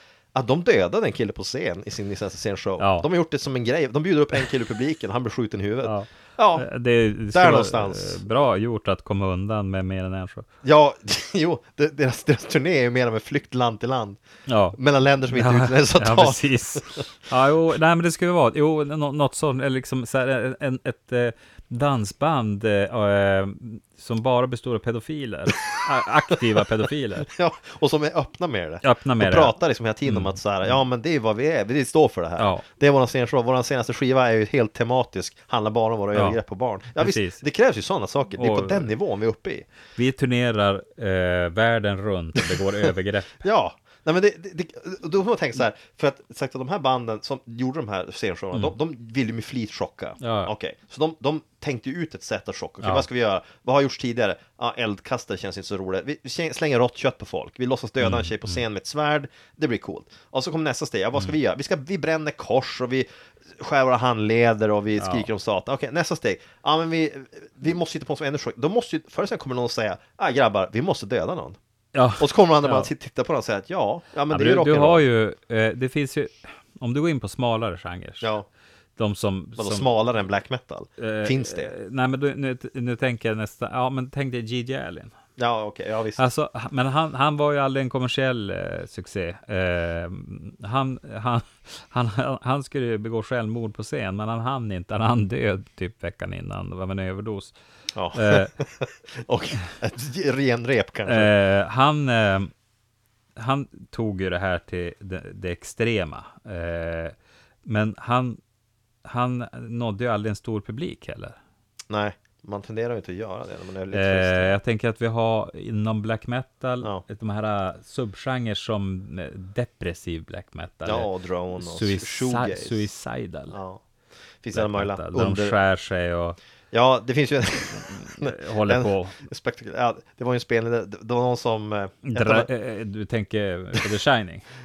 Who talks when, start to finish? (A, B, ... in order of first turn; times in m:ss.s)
0:00.3-0:06.7 A
0:02.8-0:03.1 B
0:05.8-0:10.4 B
0:07.3-0:08.3 A
0:10.6-0:14.2 A
0:14.5-0:14.8 B
0:14.7-0:17.0 A
0:15.3-0:27.3 B
0:27.2-0:39.7 A
0:28.8-0:29.5 B
0:30.0-0:30.8 B
0:32.4-0:32.6 B
0:36.1-0:36.4 B
0:37.0-0:37.4 B
0:38.4-0:38.9 B
0:40.0-0:43.4 B
0:43.4-1:11.6 A
0:50.2-0:50.5 B
0:52.8-0:53.1 B
0:58.0-0:58.6 B
1:05.0-1:05.3 B
1:11.9-1:12.9 B
1:12.2-1:15.0 A
1:14.3-1:18.3 B
1:18.2-1:18.5 A
1:19.0-1:19.9 B
1:19.6-1:21.7 A
1:21.0-1:25.1 B
1:25.4-1:26.2 A
1:26.2-1:37.5 B
1:37.9-1:41.3 A
1:38.1-1:38.5 B
1:41.0-1:42.5 B
1:43.4-1:48.4 B
1:49.0-1:51.4 B
1:51.9-1:54.6 A
1:53.9-2:03.6 B
2:00.8-2:02.9 A
2:03.5-2:03.8 A
2:04.4-2:05.6 A
2:04.5-2:06.4 B
2:06.7-2:12.5 A
2:07.9-2:09.2 B
2:12.0-2:14.4 B